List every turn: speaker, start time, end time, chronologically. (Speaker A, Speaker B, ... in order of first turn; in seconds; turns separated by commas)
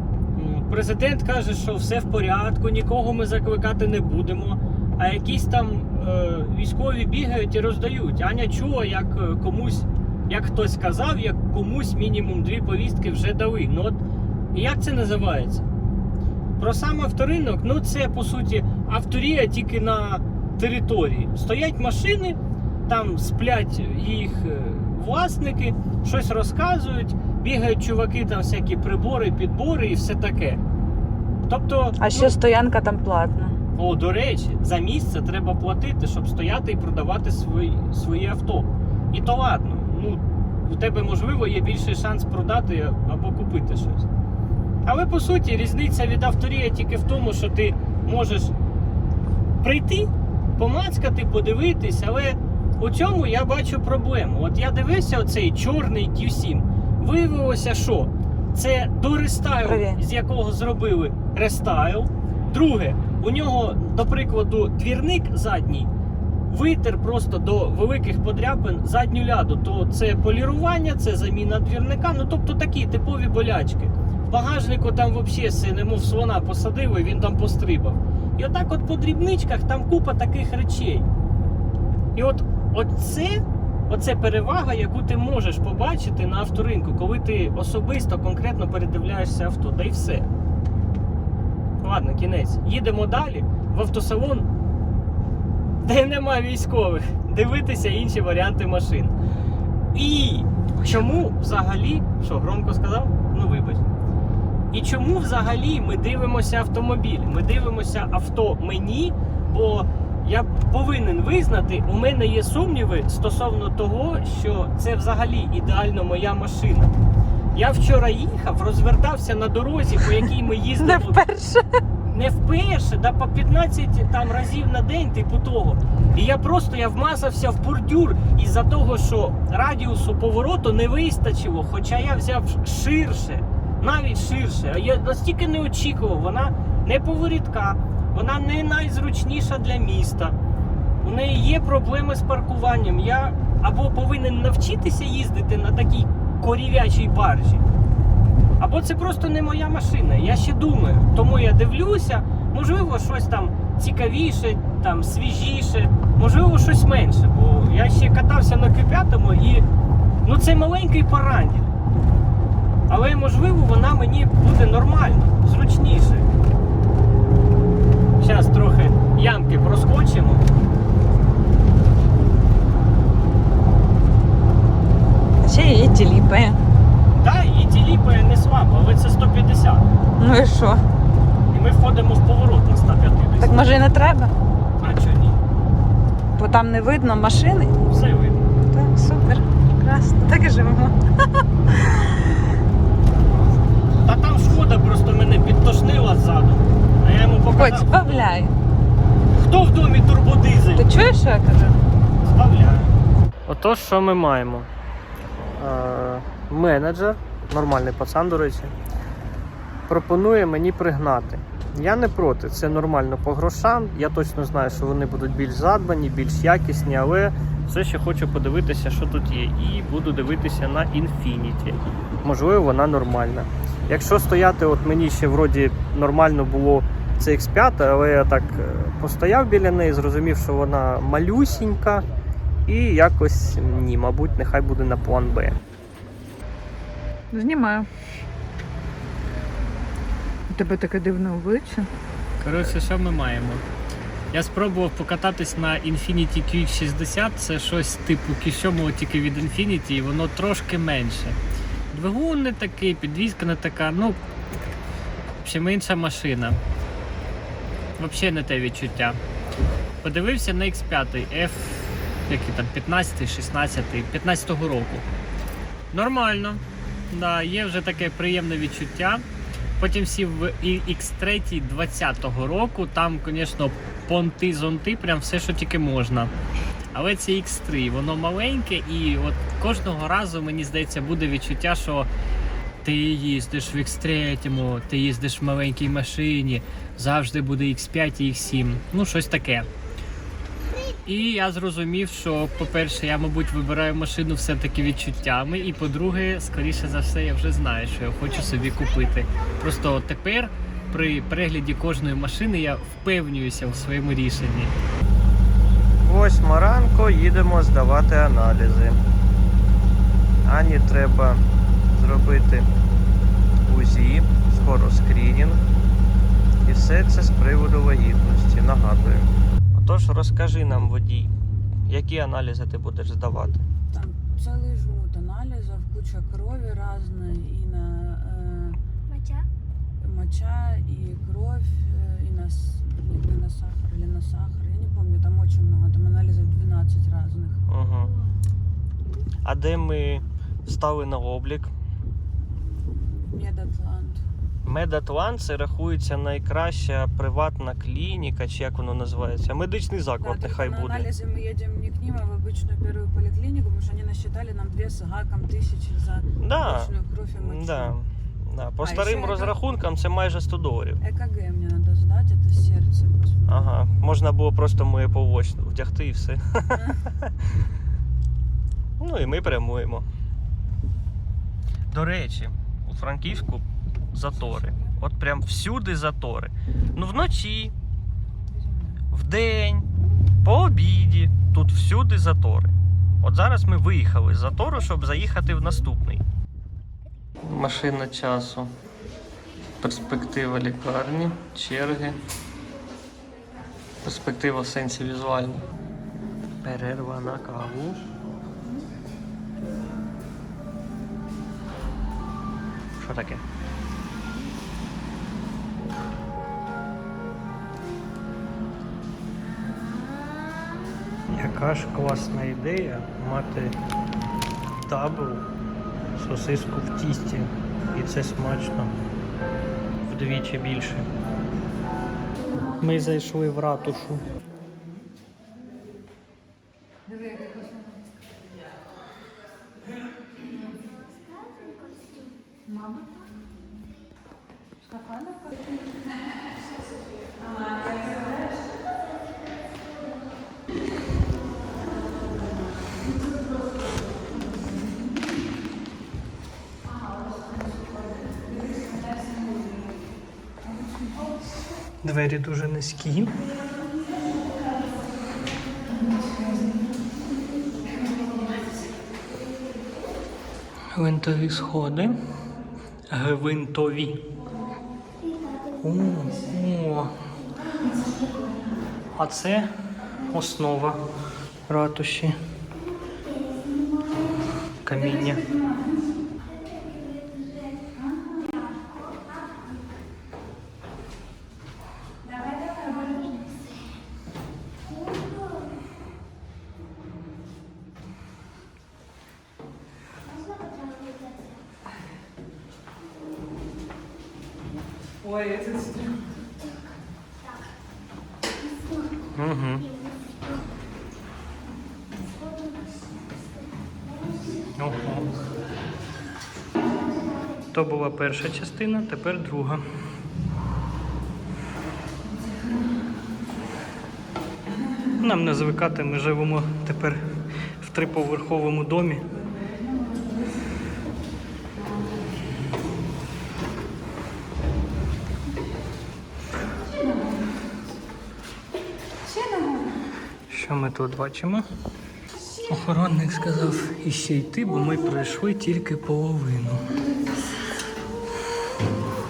Speaker A: 0.3-14.0, Speaker A: 14.5-15.7, Speaker A: 16.6-30.6, Speaker A: 31.4-32.4, Speaker B: 32.0-33.5, Speaker A: 33.8-44.1, Speaker A: 44.8-48.5, Speaker A: 49.6-65.9, Speaker B: 59.6-60.0, Speaker A: 66.5-81.0, Speaker A: 82.1-90.3, Speaker A: 91.8-94.5, Speaker A: 95.8-99.1, Speaker A: 99.9-103.8, Speaker A: 104.7-116.9, Speaker A: 117.5-121.2, Speaker B: 120.8-121.7, Speaker A: 122.1-140.3, Speaker A: 141.0-147.6, Speaker A: 148.6-159.7, Speaker A: 160.2-161.7, Speaker A: 162.9-166.3, Speaker A: 168.2-170.4, Speaker B: 175.4-176.6, Speaker A: 177.1-179.8, Speaker B: 180.2-180.8, Speaker A: 181.5-183.8, Speaker B: 183.4-184.3, Speaker A: 184.8-185.4, Speaker B: 186.3-187.7, Speaker A: 187.9-188.4, Speaker B: 188.7-190.9, Speaker A: 194.0-198.3, Speaker B: 197.5-198.5, Speaker A: 199.3-201.0, Speaker B: 200.8-201.8, Speaker A: 202.2-202.9, Speaker A: 203.5-204.7, Speaker A: 205.5-208.7, Speaker A: 209.9-232.0, Speaker A: 232.7-235.6, Speaker B: 237.3-237.9, Speaker B: 240.5-241.9, Speaker A: 242.4-243.6, Speaker A: 244.3-251.4, Speaker A: 251.9-254.2, Speaker A: 255.4-256.6, Speaker A: 258.0-259.2, Speaker A: 260.0-265.0, Speaker A: 265.9-269.2, Speaker A: 269.8-276.3, Speaker A: 276.9-282.1, Speaker A: 282.8-289.7, Speaker A: 291.0-304.7, Speaker A: 306.0-309.0, Speaker A: 310.4-312.7, Speaker A: 313.6-315.6, Speaker A: 316.6-321.3, Speaker A: 321.9-323.6, Speaker C: 323.9-328.8, Speaker C: 330.0-337.6, Speaker A: 337.7-338.2, Speaker A: 339.4-341.7, Speaker C: 342.6-344.2, Speaker A: 344.6-351.1, Speaker C: 350.2-358.0, Speaker A: 356.4-361.0, Speaker C: 358.8-359.6, Speaker C: 361.0-363.8, Speaker A: 363.5-366.8, Speaker C: 366.7-367.0, Speaker A: 369.0-370.1, Speaker A: 371.9-377.7, Speaker A: 379.1-379.9, Speaker A: 380.4-386.2, Speaker A: 387.4-388.7, Speaker A: 389.8-392.2, Speaker A: 394.0-395.6, Speaker A: 396.6-398.1, Speaker A: 403.0-403.4, Speaker A: 411.3-413.8, Speaker A: 414.9-415.5, Speaker A: 416.1-418.9, Speaker A: 420.1-421.1, Speaker A: 422.8-424.2, Speaker C: 427.1-427.5, Speaker B: 431.3-432.3, Speaker A: 452.0-453.4, Speaker B: 456.2-456.6, Speaker A: 460.9-462.1, Speaker A: 463.1-464.2, Speaker A: 465.8-467.1, Speaker A: 469.1-469.7, Speaker A: 470.3-471.0, Speaker A: 471.7-472.3, Speaker A: 474.9-475.4, Speaker B: 478.2-478.8, Speaker B: 482.4-483.6, Speaker B: 490.7-491.4, Speaker B: 495.4-496.0, Speaker A: 499.3-499.9, Speaker A: 504.7-505.3, Speaker A: 507.7-509.8, Speaker A: 515.2-517.2, Speaker A: 517.8-519.3, Speaker B: 520.1-520.4, Speaker B: 529.4-529.8, Speaker A: 530.5-531.6, Speaker A: 532.7-536.9